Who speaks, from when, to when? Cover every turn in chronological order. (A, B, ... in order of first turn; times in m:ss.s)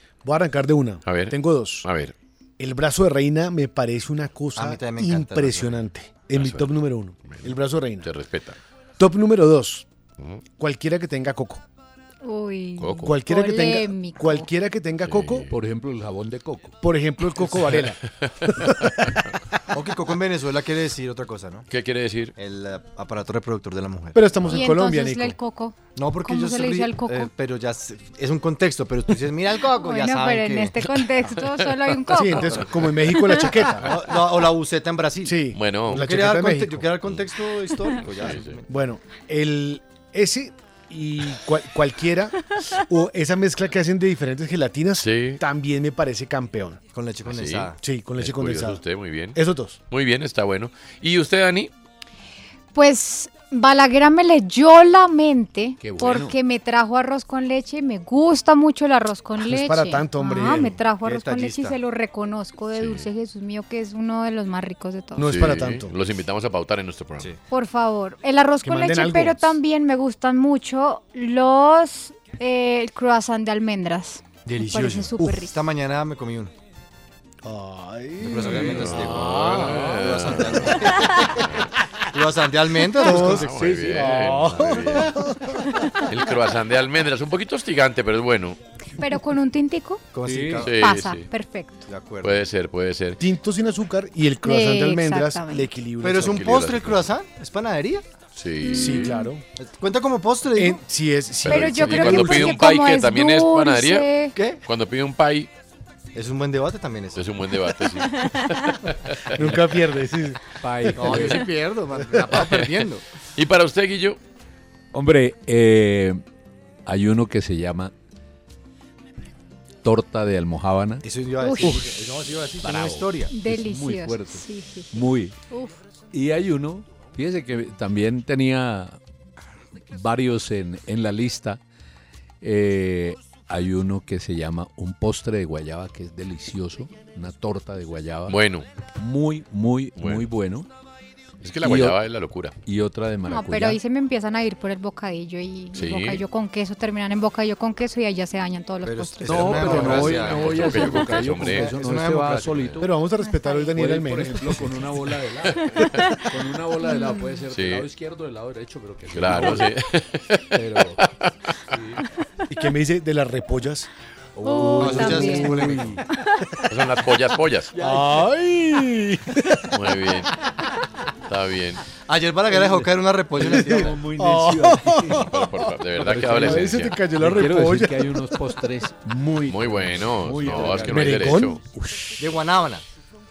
0:00.2-0:01.9 A
0:01.0-0:02.1 B
0:02.6-0:08.1 A
0:04.6-0:05.7 C
0:06.4-0:06.7 B
0:07.2-0:08.6 B
0:09.0-0:09.8 A
0:10.6-0:11.6 A
0:12.2-0:14.5 D
0:12.8-0:13.1 E
0:13.0-0:15.5 A
0:15.0-0:15.5 B
0:15.5-0:16.8 E
0:16.8-0:18.0 A
0:19.7-0:21.6 C
0:21.7-0:22.3 B
0:22.4-0:24.2 C
0:24.1-0:25.4 A
0:24.4-0:27.3 D
0:25.9-0:30.8 C
0:29.7-0:32.6 D
0:32.1-0:34.0 A
0:33.8-0:35.4 C
0:35.2-0:36.9 A
0:35.5-0:36.1 B
0:35.9-0:38.6 C
0:38.0-0:38.6 B
0:38.7-0:46.8 A
0:45.0-0:45.4 B
0:46.9-0:47.8 C
0:47.2-0:49.4 B
0:47.8-0:48.8 A
0:49.3-0:49.8 A
0:49.9-0:51.7 B
0:52.7-1:05.3 D
0:55.8-0:56.3 E
0:59.4-1:00.8 A
1:00.5-1:01.8 C
1:02.7-1:03.1 B
1:05.2-1:05.9 A
1:05.2-1:07.3 B
1:07.5-1:15.6 D
1:08.6-1:09.6 A
1:14.4-1:16.5 C
1:17.4-1:19.7 A
1:18.2-1:21.3 C
1:18.6-1:20.8 B
1:22.1-1:23.5 C
1:23.0-1:25.8 A
1:23.0-1:25.2 B
1:23.3-1:24.5 E
1:26.0-1:28.6 B
1:29.0-1:30.0 D
1:30.1-1:30.7 C
1:30.2-1:30.6 E
1:30.6-1:31.3 B
1:30.7-1:31.9 D
1:31.9-1:32.4 C
1:32.2-1:33.2 B
1:33.2-1:36.4 A
1:34.4-1:35.7 D
1:36.0-1:38.0 C
1:36.2-1:37.1 B
1:38.3-1:39.1 B
1:38.7-1:39.4 A
1:38.8-1:39.3 D
1:39.6-1:40.8 C
1:40.6-1:42.6 A
1:41.4-1:45.5 B
1:41.5-1:44.4 D
1:46.1-1:47.2 C
1:47.2-1:49.4 B
1:49.3-1:50.4 A
1:50.6-1:51.4 E
1:50.9-1:53.0 C
1:52.3-1:52.7 B
1:53.4-1:54.2 B
1:54.9-1:56.2 E
1:56.8-1:57.9 E
1:59.8-2:01.0 E
2:01.0-2:03.3 C
2:01.4-2:01.8 D
2:01.6-2:02.0 E
2:02.6-2:05.4 E
2:03.3-2:04.9 D
2:05.5-2:05.8 D
2:06.1-2:09.0 E
2:09.9-2:11.6 E
2:12.4-2:18.4 E
2:18.3-2:18.6 B
2:19.0-2:20.7 E
2:20.0-2:20.2 B
2:21.4-2:22.5 B
2:21.6-2:22.0 E
2:22.6-2:23.8 E
2:23.3-2:29.6 D
2:25.7-2:26.2 B
2:28.8-2:30.8 C
2:29.2-2:32.9 E
2:29.4-2:31.7 B
2:31.3-2:32.8 C
2:32.8-2:34.7 A
2:33.2-2:33.7 D
2:33.8-2:39.7 E
2:35.8-2:36.1 D
2:36.8-2:37.3 D
2:37.5-2:37.8 B
2:39.1-2:40.4 B
2:40.5-2:41.0 E
2:41.0-2:41.3 B
2:41.7-2:42.1 E
2:42.5-2:43.9 A
2:44.4-2:46.0 E
2:44.4-2:45.7 D
2:44.8-2:46.0 C
2:46.7-2:47.7 B
2:47.7-2:48.2 E
2:47.8-2:49.7 A
2:49.7-2:50.3 B
2:51.3-2:51.8 B
2:52.1-2:53.9 C
2:52.5-2:55.3 E
2:54.2-2:55.4 A
2:55.1-2:57.0 B
2:56.0-3:01.3 E
2:56.3-2:58.0 A
2:59.5-3:01.6 B
3:00.8-3:02.1 A
3:02.2-3:02.8 C